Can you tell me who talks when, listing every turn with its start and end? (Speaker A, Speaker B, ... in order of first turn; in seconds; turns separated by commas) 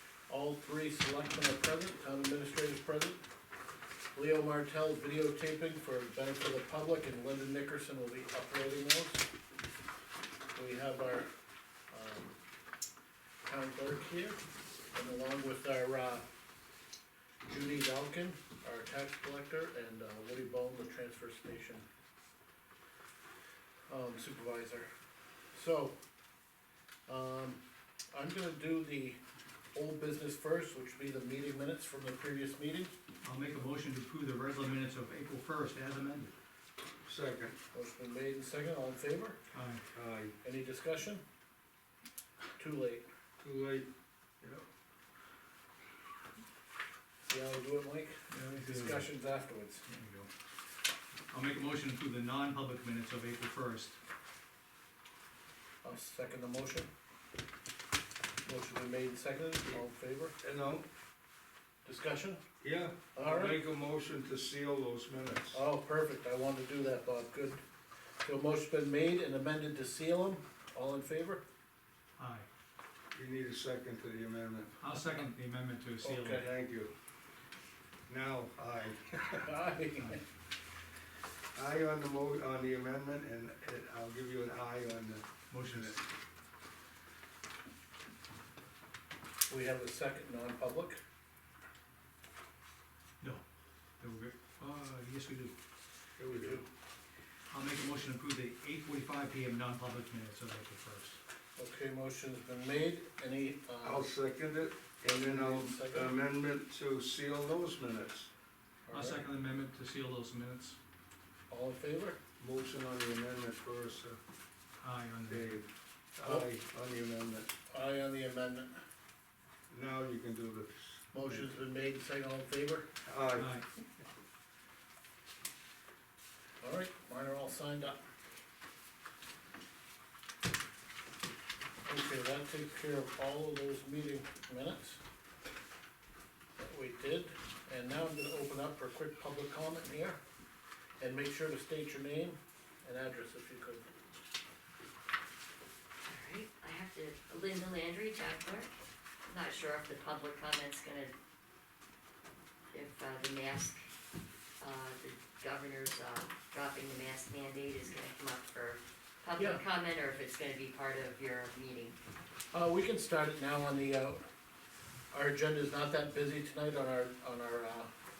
Speaker A: 0.3-3.2, Speaker A: 4.1-9.2, Speaker A: 10.5-11.3, Speaker A: 11.9-12.3, Speaker A: 13.4-14.4, Speaker A: 14.9-16.2, Speaker A: 17.5-21.9, Speaker A: 23.9-24.9, Speaker A: 25.5-25.9, Speaker A: 27.1-27.6, Speaker A: 28.1-29.2, Speaker A: 29.7-32.9, Speaker B: 33.2-36.3, Speaker C: 37.0-37.6, Speaker A: 37.7-39.4, Speaker B: 39.5-39.8, Speaker C: 39.9-40.3, Speaker A: 40.4-41.2, Speaker A: 42.6-43.0, Speaker C: 43.4-43.9, Speaker C: 44.4-44.6, Speaker A: 47.3-49.8, Speaker B: 48.3-49.1, Speaker B: 49.9-50.3, Speaker B: 51.3-54.0, Speaker A: 55.8-56.9, Speaker A: 58.4-60.4, Speaker C: 60.4-60.9, Speaker A: 61.8-62.4, Speaker C: 62.6-65.6, Speaker A: 63.1-63.6, Speaker A: 65.5-67.6, Speaker A: 68.2-71.4, Speaker B: 72.2-72.5, Speaker C: 73.1-74.8, Speaker B: 74.8-76.4, Speaker A: 76.0-76.4, Speaker C: 76.3-76.9, Speaker C: 78.1-79.5, Speaker A: 79.4-80.2, Speaker C: 81.5-86.0, Speaker B: 85.5-86.0, Speaker A: 89.5-91.0, Speaker B: 94.0-95.5, Speaker C: 96.2-96.6, Speaker A: 96.3-96.7, Speaker B: 97.5-101.2, Speaker A: 101.6-104.1, Speaker C: 103.8-108.3, Speaker A: 105.0-106.1, Speaker A: 108.9-109.2, Speaker B: 108.9-110.8, Speaker A: 111.5-112.2, Speaker C: 112.4-114.2, Speaker B: 114.8-115.5, Speaker C: 115.3-117.5, Speaker A: 117.7-118.7, Speaker C: 119.7-121.5, Speaker A: 121.1-122.9, Speaker C: 123.0-123.5, Speaker B: 123.4-123.6, Speaker A: 126.6-128.0, Speaker A: 131.8-135.0, Speaker A: 136.6-140.2, Speaker A: 141.0-143.9, Speaker D: 146.1-148.7, Speaker D: 149.3-151.1, Speaker D: 152.7-153.8, Speaker D: 154.6-162.0, Speaker A: 159.4-159.6, Speaker A: 162.5-164.2, Speaker A: 165.1-167.9